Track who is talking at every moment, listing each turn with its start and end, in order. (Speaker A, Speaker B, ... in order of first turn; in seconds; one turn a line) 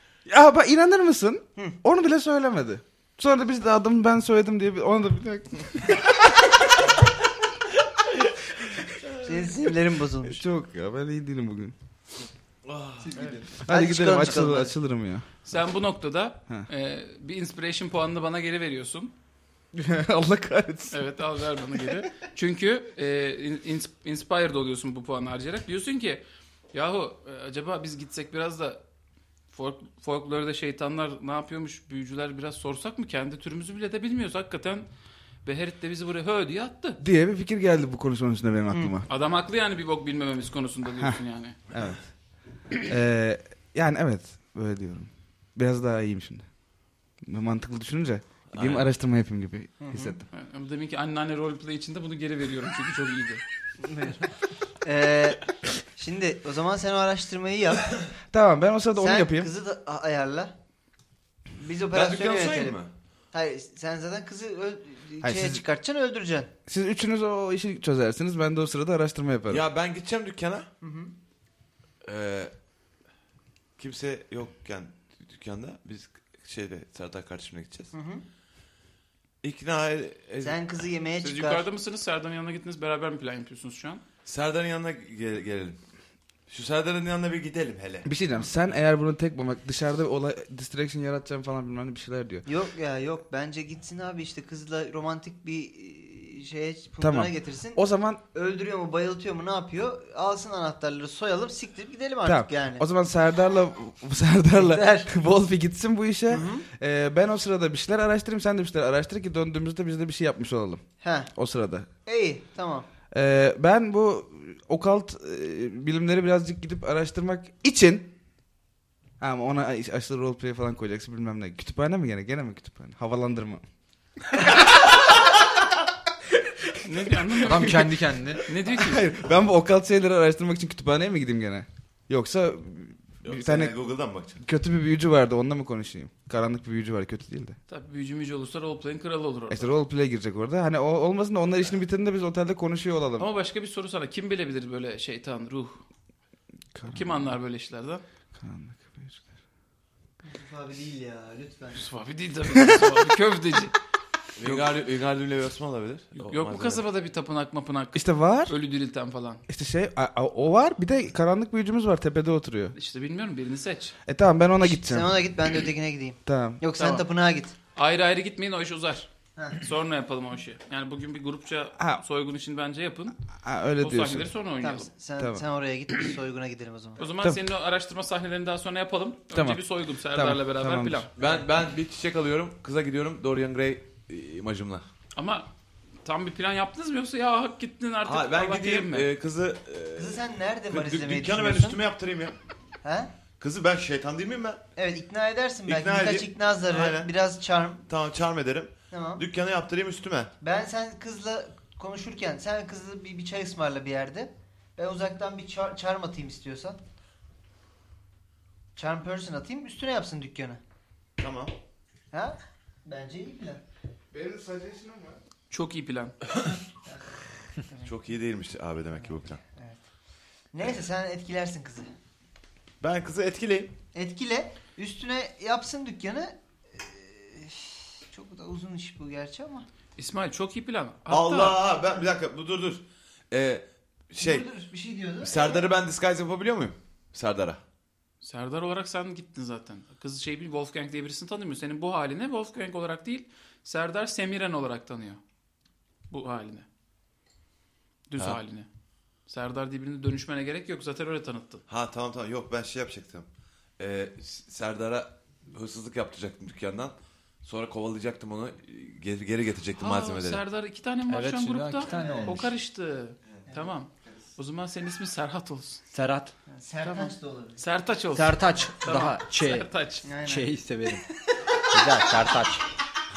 Speaker A: 0.2-6.1
Speaker B: 9.2-10.4
Speaker A: 10.2-11.7
Speaker C: 12.6-13.4
Speaker B: 13.1-14.8
Speaker A: 13.5-15.2
Speaker D: 15.4-19.1
Speaker A: 19.7-21.0
Speaker D: 20.9-28.8
Speaker D: 29.5-34.9
Speaker D: 35.4-37.0
Speaker A: 37.0-39.1
Speaker B: 38.7-39.0
Speaker D: 39.1-41.6
Speaker A: 41.7-50.2
Speaker C: 48.5-48.9
Speaker B: 49.8-50.2
Speaker D: 50.3-53.4
Speaker B: 53.8-54.3
Speaker B: 54.8-58.1
Speaker A: 58.3-59.5
Speaker B: 58.9-60.5
Speaker B: 61.6-62.8
Speaker C: 61.9-62.9
Speaker B: 63.3-66.5
Speaker A: 65.2-65.6
Speaker A: 66.7-69.6
Speaker C: 69.5-70.7
Speaker B: 70.8-71.1
Speaker C: 72.0-72.5
Speaker C: 73.8-77.9
Speaker B: 77.9-78.2
Speaker C: 79.4-80.6
Speaker B: 80.4-81.6
Speaker D: 81.2-84.0
Speaker C: 84.2-85.8
Speaker C: 86.5-88.1
Speaker A: 88.0-92.5
Speaker B: 92.5-97.8
Speaker A: 97.0-98.2
Speaker B: 98.3-102.8
Speaker A: 102.2-110.8
Speaker B: 104.5-105.1
Speaker B: 106.3-106.7
Speaker B: 111.0-111.3
Speaker A: 111.3-111.9
Speaker B: 112.0-112.9
Speaker A: 113.1-118.1
Speaker A: 119.2-123.6
Speaker A: 126.6-127.9
Speaker D: 126.8-127.9
Speaker E: 127.4-128.4
Speaker D: 128.4-129.1
Speaker A: 128.7-133.8
Speaker C: 133.2-134.4
Speaker A: 134.4-137.6
Speaker D: 137.7-139.7
Speaker A: 139.5-143.3
Speaker D: 143.2-145.8
Speaker A: 146.7-147.3
Speaker D: 146.9-148.0
Speaker A: 148.3-149.2
Speaker B: 150.2-151.8
Speaker D: 151.7-153.7
Speaker C: 154.4-156.8
Speaker D: 156.1-159.4
Speaker A: 157.9-158.5
Speaker A: 159.5-162.8
Speaker D: 162.7-163.9
Speaker A: 164.1-165.2
Speaker B: 164.6-167.5
Speaker A: 166.2-166.6
Speaker D: 166.8-167.0
Speaker D: 167.7-173.2
Speaker A: 173.3-174.3
Speaker D: 173.8-174.9
Speaker B: 174.6-177.1
Speaker A: 175.2-175.4
Speaker D: 177.0-181.1
Speaker A: 179.3-181.1
Speaker C: 181.2-184.8
Speaker D: 185.2-185.5
Speaker D: 186.0-189.1
Speaker C: 188.0-192.4
Speaker B: 190.0-191.8
Speaker B: 192.8-193.1
Speaker C: 193.4-194.6
Speaker B: 194.8-197.8
Speaker C: 195.6-197.1
Speaker C: 197.9-200.3
Speaker B: 198.9-199.2
Speaker B: 200.4-206.8
Speaker B: 208.7-210.6
Speaker C: 211.2-211.5
Speaker B: 212.1-213.6
Speaker A: 214.1-215.2
Speaker D: 215.5-216.2
Speaker B: 217.6-217.9
Speaker C: 217.8-219.4
Speaker B: 219.0-219.8
Speaker B: 220.5-221.9
Speaker C: 222.8-223.7
Speaker B: 223.9-229.7
Speaker D: 230.0-231.6
Speaker C: 231.1-234.5
Speaker B: 234.2-235.7
Speaker C: 235.2-237.6
Speaker D: 238.2-245.2
Speaker D: 246.1-246.7
Speaker D: 248.1-248.7
Speaker D: 249.2-251.6
Speaker C: 251.7-253.3
Speaker C: 253.8-260.4
Speaker D: 259.8-265.8
Speaker E: 261.1-262.5
Speaker B: 261.9-262.4
Speaker E: 265.9-266.3
Speaker B: 266.5-267.6
Speaker D: 266.8-270.1
Speaker E: 268.1-269.7
Speaker B: 270.0-270.5
Speaker E: 270.2-271.0
Speaker E: 271.7-272.7